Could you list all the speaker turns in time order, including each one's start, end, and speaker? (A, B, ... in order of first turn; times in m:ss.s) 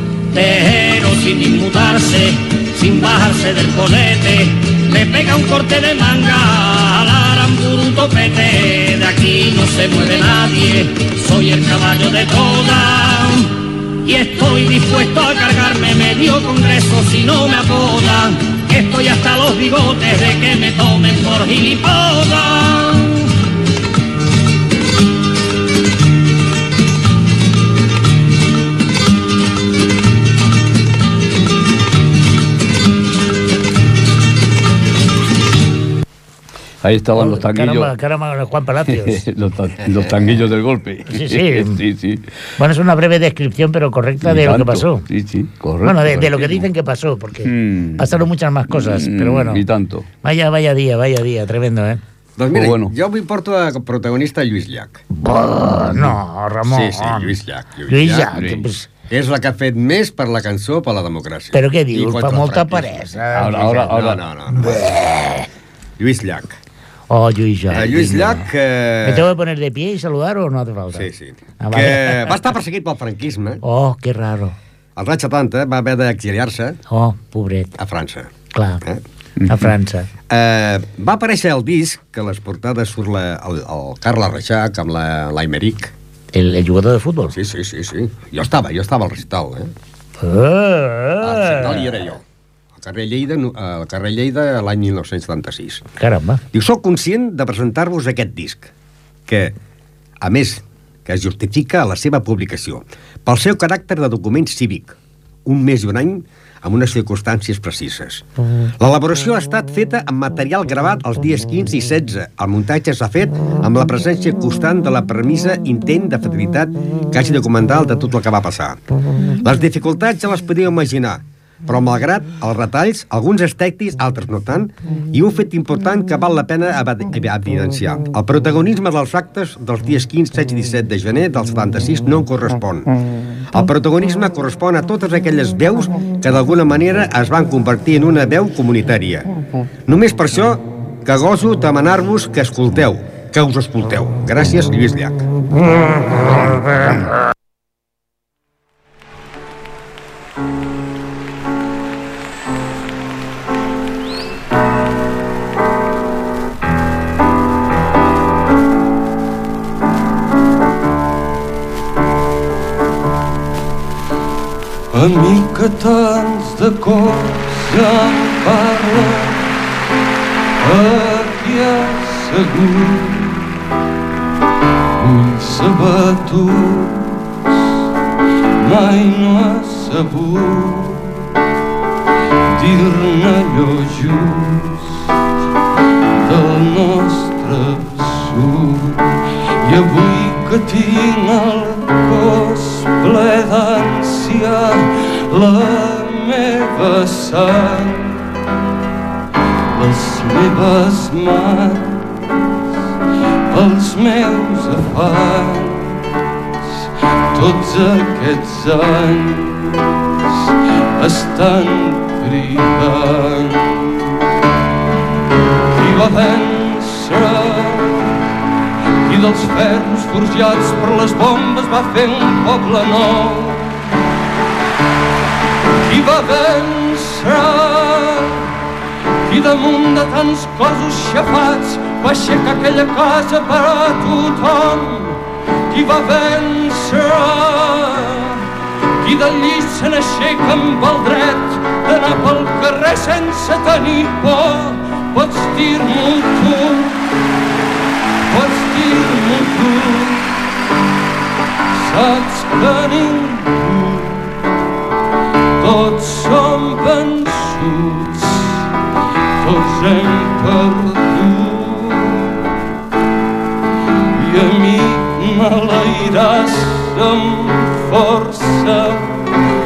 0:00.3-0:23.3 A
0:36.8-0:37.9 B
0:37.1-0:39.2 C
0:39.0-0:42.3 B
0:41.1-0:41.8 C
0:42.6-0:45.1 C
0:44.2-0:46.6 B
0:45.8-0:49.6 C
0:47.4-0:48.2 B
0:48.7-0:50.1 B
0:50.2-0:52.0 C
0:52.4-0:55.0 D
0:52.5-0:52.9 B
0:55.1-0:57.4 C
0:56.7-0:58.3 D
0:57.9-0:58.9 C
0:58.3-0:58.7 B
0:59.1-1:04.8 D
1:01.5-1:03.9 C
1:03.3-1:04.2 B
1:04.5-1:05.5 C
1:06.0-1:06.6 D
1:07.1-1:08.5 C
1:07.7-1:09.3 D
1:09.0-1:11.1 C
1:10.9-1:13.6 D
1:11.6-1:12.3 C
1:13.6-1:14.6 C
1:15.0-1:16.8 D
1:16.9-1:17.8 C
1:17.8-1:18.3 D
1:18.5-1:18.8 C
1:19.4-1:19.7 B
1:19.5-1:20.1 C
1:20.3-1:25.9 D
1:26.3-1:27.4 C
1:27.3-1:29.7 D
1:30.2-1:31.9 C
1:31.2-1:32.2 D
1:32.8-1:35.8 D
1:36.0-1:36.4 C
1:36.5-1:38.7 D
1:39.3-1:39.6 D
1:40.2-1:48.2 D
1:48.8-1:58.8 D
1:59.4-2:12.9 D
2:13.5-2:19.3 D
2:19.9-2:25.2 D
2:44.9-2:49.5 E
2:50.6-2:53.5 E
2:55.0-2:57.3 E
2:58.6-3:01.2 E
3:02.5-3:05.0 E
3:06.2-3:18.2 E
3:19.7-3:22.4 E
3:23.5-3:26.0 E
3:27.3-3:30.0 E
3:31.0-3:34.1 E
3:35.7-3:38.2 E
3:39.1-3:43.9 E
3:45.8-3:48.6 E
3:49.2-3:58.5 E
3:59.0-4:07.1 E
4:08.3-4:10.4 E
4:11.7-4:14.5 E
4:15.6-4:18.6 E
4:19.4-4:22.4 E
4:24.2-4:29.3 E